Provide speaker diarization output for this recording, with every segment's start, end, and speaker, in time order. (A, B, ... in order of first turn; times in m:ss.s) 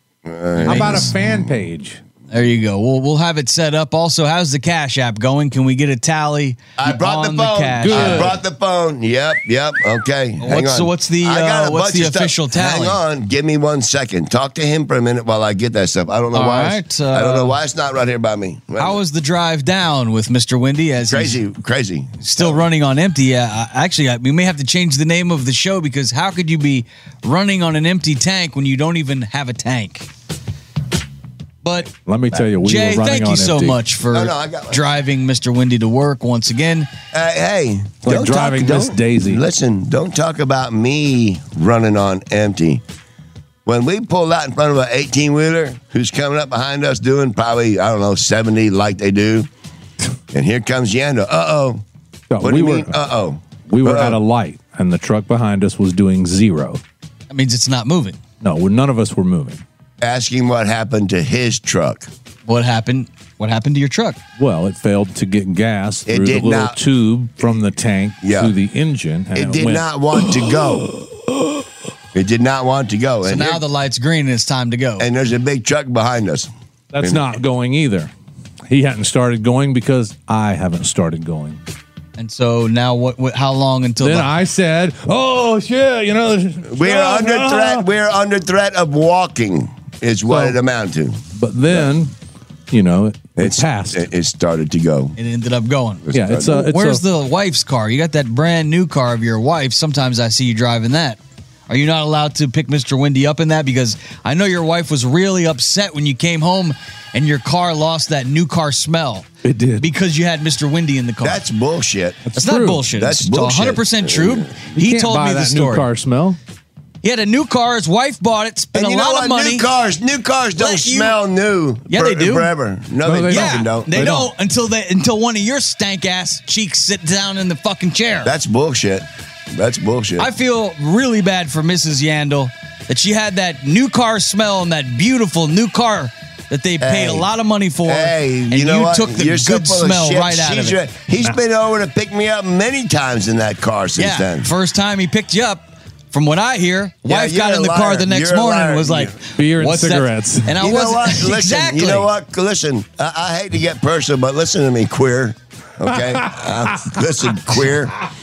0:00.2-0:01.4 A
0:00.6-0:01.1 B
0:00.7-0:02.0 C
0:02.3-0:08.4 B
0:06.8-0:19.0 A
0:07.8-0:08.4 C
0:10.4-0:13.0 B
0:16.3-0:17.6 B
0:18.8-0:21.4 B
0:21.1-0:22.6 A
0:22.2-0:30.1 B
0:31.6-0:31.9 B
0:32.0-0:33.8 C
0:32.6-0:36.9 B
0:34.1-0:34.8 A
0:37.1-0:42.8 A
0:38.0-0:39.4 C
0:43.6-0:49.5 A
0:50.3-0:51.8 A
0:52.3-0:53.0 C
0:52.4-0:54.2 A
0:53.7-0:56.8 C
0:57.3-0:58.2 B
0:58.4-0:59.6 C
1:00.0-1:02.1 A
1:02.4-1:04.2 B
1:04.4-1:10.6 C
1:06.1-1:06.8 A
1:08.2-1:08.5 A
1:09.3-1:10.9 A
1:12.1-1:13.6 A
1:13.2-1:15.1 B
1:15.0-1:17.2 A
1:16.9-1:18.1 C
1:18.7-1:21.6 C
1:22.2-1:24.3 B
1:24.0-1:27.9 C
1:26.7-1:31.9 A
1:30.3-1:30.6 C
1:31.3-1:32.1 C
1:32.7-1:34.1 C
1:33.4-1:35.1 A
1:35.2-1:51.4 B
1:36.0-1:36.6 A
1:36.1-1:37.0 C
1:49.4-1:49.9 C
1:51.2-1:52.2 A
1:52.2-1:52.8 C
1:52.4-1:55.9 B
1:52.9-1:54.6 A
1:54.8-1:56.4 C
1:57.0-1:59.7 B
1:58.7-2:03.9 A
2:00.6-2:01.2 B
2:01.9-2:02.5 B
2:03.0-2:04.3 C
2:03.3-2:08.3 B
2:08.2-2:10.3 A
2:10.2-2:20.8 B
2:16.8-2:17.3 A
2:17.8-2:24.5 A
2:24.0-2:32.1 B
2:27.0-2:29.2 A
2:29.3-2:30.6 C
2:30.6-2:38.0 A
2:35.9-2:37.6 C